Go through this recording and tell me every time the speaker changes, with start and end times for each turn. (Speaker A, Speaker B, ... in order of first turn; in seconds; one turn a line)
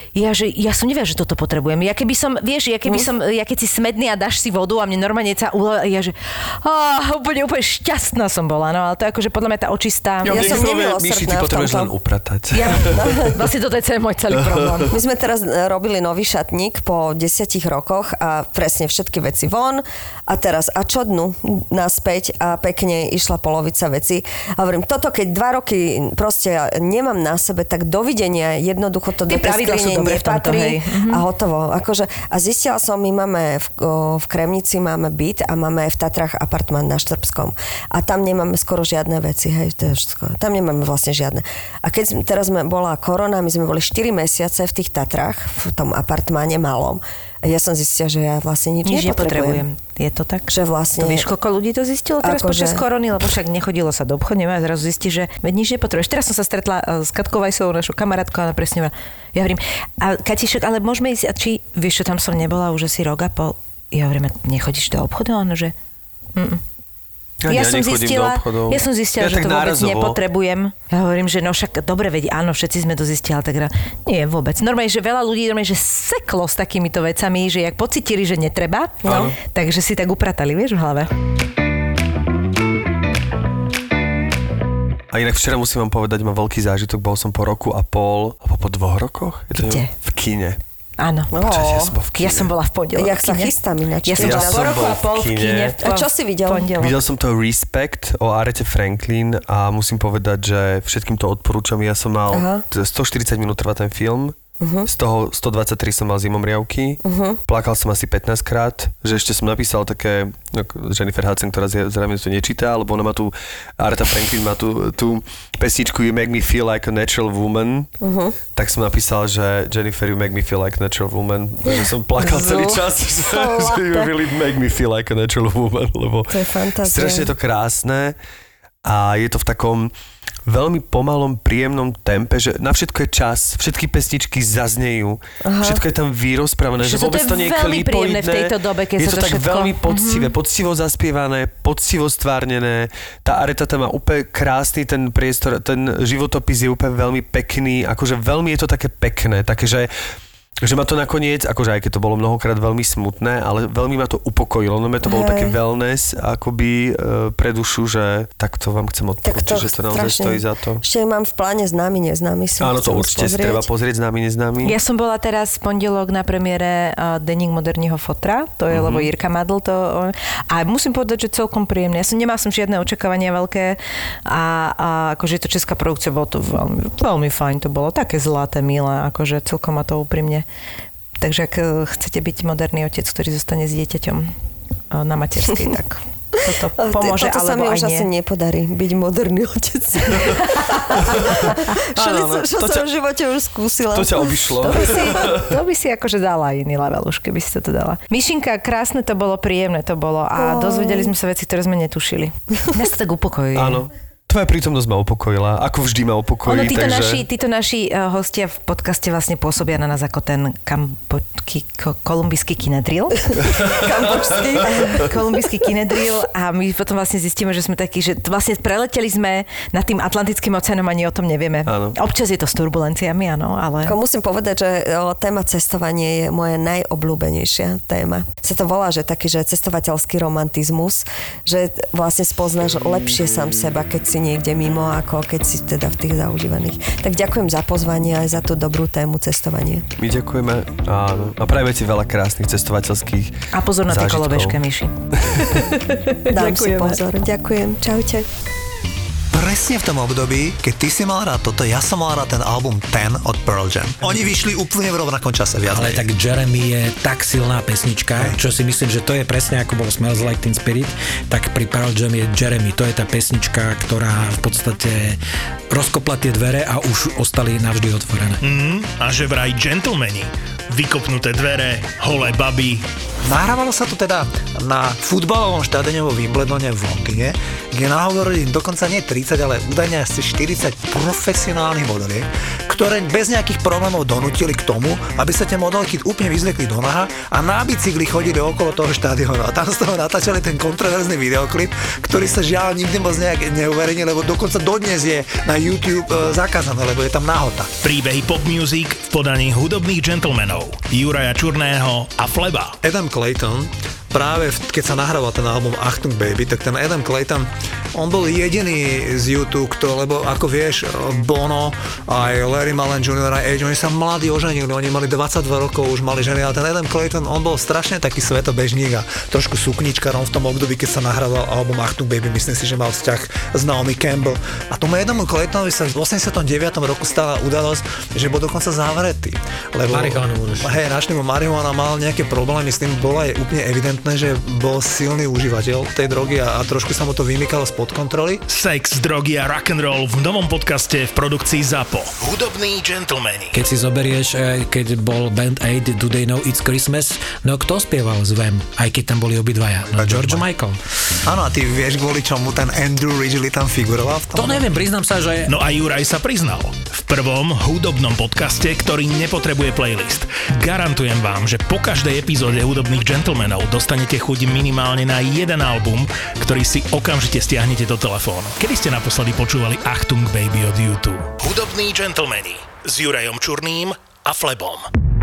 Speaker A: 0.1-10.5
Speaker B: 10.2-11.9
Speaker C: 10.2-13.1
Speaker A: 12.5-14.9
Speaker B: 12.8-13.4
Speaker C: 14.5-14.8
Speaker B: 14.9-49.6
Speaker A: 29.3-31.2
Speaker A: 48.9-65.7
Speaker B: 50.5-51.3
Speaker B: 52.2-52.8
Speaker A: 66.4-66.6
Speaker C: 67.4-70.2
Speaker A: 67.5-81.1
Speaker B: 79.0-79.3
Speaker C: 79.1-79.3
Speaker C: 85.1-90.6
Speaker A: 89.6-89.9
Speaker A: 91.0-91.3
Speaker B: 91.3-92.0
Speaker C: 91.4-92.5
Speaker A: 92.2-93.5
Speaker B: 93.0-94.9
Speaker A: 94.1-97.0
Speaker C: 94.2-95.8
Speaker B: 95.8-96.7
Speaker C: 96.8-104.3
Speaker B: 102.3-102.6
Speaker B: 104.6-104.9
Speaker C: 104.9-117.9
Speaker B: 107.0-107.4
Speaker B: 118.0-118.4
Speaker C: 118.5-128.2
Speaker B: 121.7-124.1
Speaker B: 126.3-127.3
Speaker C: 128.8-129.9
Speaker C: 130.5-149.9
Speaker B: 135.4-135.8
Speaker A: 136.8-140.3
Speaker C: 150.6-160.8
Speaker B: 155.0-155.6
Speaker B: 159.2-163.7
Speaker C: 162.6-164.8
Speaker A: 164.6-180.4
Speaker C: 168.7-169.1
Speaker A: 181.2-184.3
Speaker A: 184.9-188.1
Speaker B: 186.8-195.1
Speaker A: 190.2-190.8
Speaker C: 191.1-192.9
Speaker C: 193.9-195.5
Speaker A: 194.7-203.8
Speaker B: 200.4-201.1
Speaker C: 203.6-207.2
Speaker A: 206.4-213.5
Speaker C: 213.4-215.0
Speaker B: 213.7-215.1
Speaker A: 214.6-224.0
Speaker C: 221.7-222.0
Speaker B: 223.8-239.9
Speaker C: 240.0-244.6
Speaker A: 243.5-244.9
Speaker C: 245.2-245.7
Speaker A: 245.5-247.0
Speaker B: 246.3-248.3
Speaker D: 249.3-256.1
Speaker E: 255.7-265.2
Speaker E: 265.7-268.4
Speaker F: 268.4-272.9
Speaker D: 273.2-297.7
Speaker F: 297.8-302.8
Speaker D: 302.8-338.4
Speaker E: 329.9-330.8
Speaker F: 338.5-343.5
Speaker E: 343.5-350.8
Speaker D: 349.9-350.5
Speaker D: 351.2-354.7
Speaker E: 354.4-355.5
Speaker F: 355.5-374.9